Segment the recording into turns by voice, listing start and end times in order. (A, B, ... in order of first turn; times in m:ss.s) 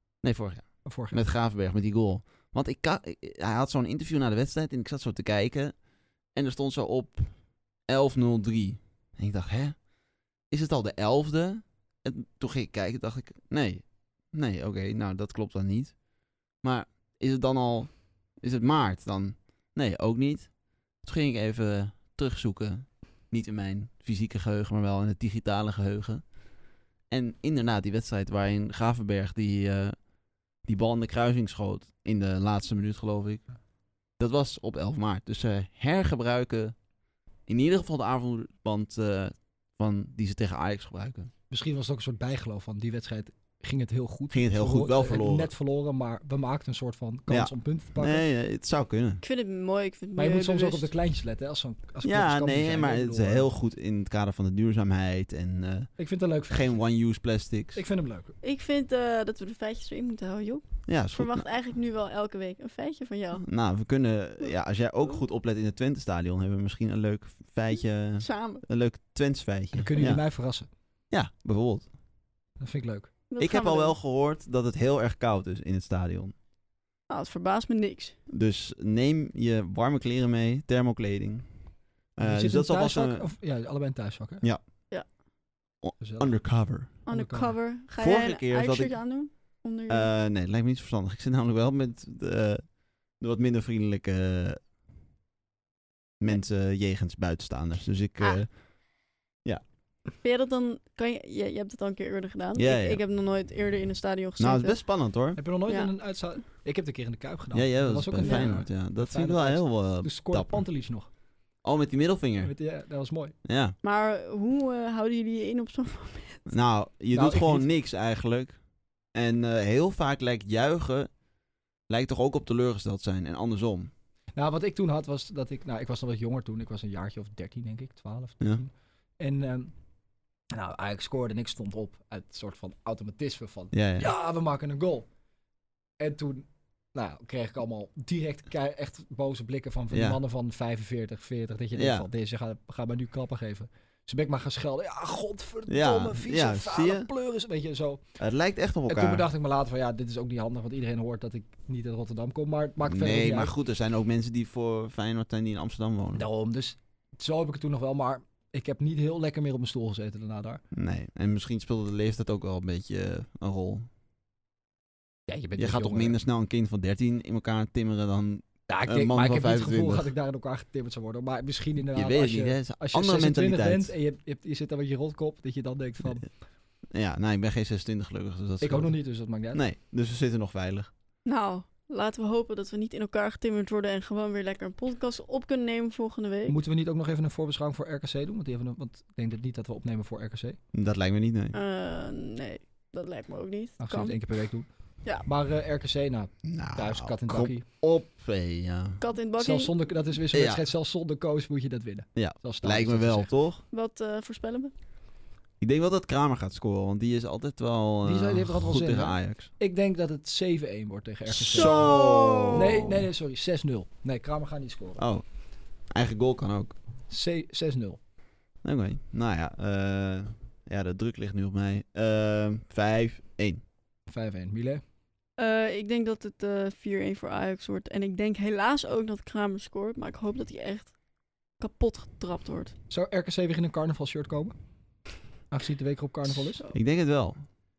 0:00.2-0:26.5 A
0:00.8-0:01.2 B
0:27.1-0:33.5 A
0:34.1-0:36.8 A
0:37.4-0:41.3 A
0:41.5-0:48.2 B
0:44.3-0:45.5 A
0:47.3-0:49.2 A
0:49.2-0:50.9 C
0:50.2-0:53.5 B
0:52.0-0:56.0 A
0:56.0-0:56.7 B
0:56.5-0:57.8 A
0:57.7-0:58.3 B
0:58.4-1:03.5 C
1:00.8-1:01.4 A
1:03.4-1:10.2 A
1:08.0-1:08.6 C
1:09.7-1:10.7 B
1:11.1-1:11.9 A
1:12.6-1:13.1 B
1:13.3-1:13.9 C
1:13.4-1:16.3 A
1:17.1-1:18.2 C
1:18.3-1:21.5 A
1:22.1-1:23.3 A
1:22.2-1:24.4 B
1:25.8-1:26.9 A
1:26.0-1:27.5 B
1:27.0-1:30.1 C
1:28.0-1:29.0 A
1:29.9-1:34.6 A
1:36.2-1:38.7 A
1:40.2-1:45.0 C
1:42.5-1:43.0 A
1:44.4-1:45.4 A
1:45.4-1:51.1 B
1:45.7-1:45.9 C
1:47.5-1:50.7 A
1:48.2-1:48.7 C
1:51.6-1:52.6 A
1:52.4-1:53.3 B
1:53.4-1:53.8 A
1:53.8-1:56.5 C
1:56.5-2:01.2 A
1:57.1-1:57.7 B
2:01.9-2:03.9 A
2:04.3-2:09.7 B
2:10.5-2:15.1 B
2:13.7-2:14.1 A
2:16.0-2:28.1 B
2:19.9-2:20.2 A
2:21.7-2:22.1 A
2:25.7-2:27.1 A
2:28.2-2:29.2 A
2:28.9-2:33.5 B
2:32.8-2:36.2 A
2:36.1-2:40.6 B
2:40.7-2:43.9 A
2:45.3-2:46.2 B
2:45.6-2:50.1 A
2:48.7-2:56.4 B
2:51.9-2:53.9 A
2:56.9-3:00.9 A
2:58.6-2:59.6 B
3:01.2-3:06.6 C
3:06.5-3:10.6 B
3:10.7-3:11.6 A
3:11.5-3:14.2 C
3:13.8-3:17.6 B
3:16.4-3:19.0 A
3:19.0-3:19.7 C
3:19.4-3:23.3 B
3:20.3-3:20.6 A
3:22.1-3:23.6 A
3:23.7-3:24.7 C
3:25.6-3:29.5 A
3:28.0-3:31.9 B
3:31.3-3:33.1 A
3:31.5-3:32.8 C
3:32.5-3:35.0 B
3:35.0-3:35.3 A
3:35.8-3:36.7 A
3:37.1-3:38.0 B
3:38.6-3:43.6 A
3:44.1-3:44.8 B
3:45.4-3:50.9 C
3:51.6-3:52.7 C
3:52.9-3:54.5 B
3:55.5-3:56.6 B
3:56.7-3:57.4 A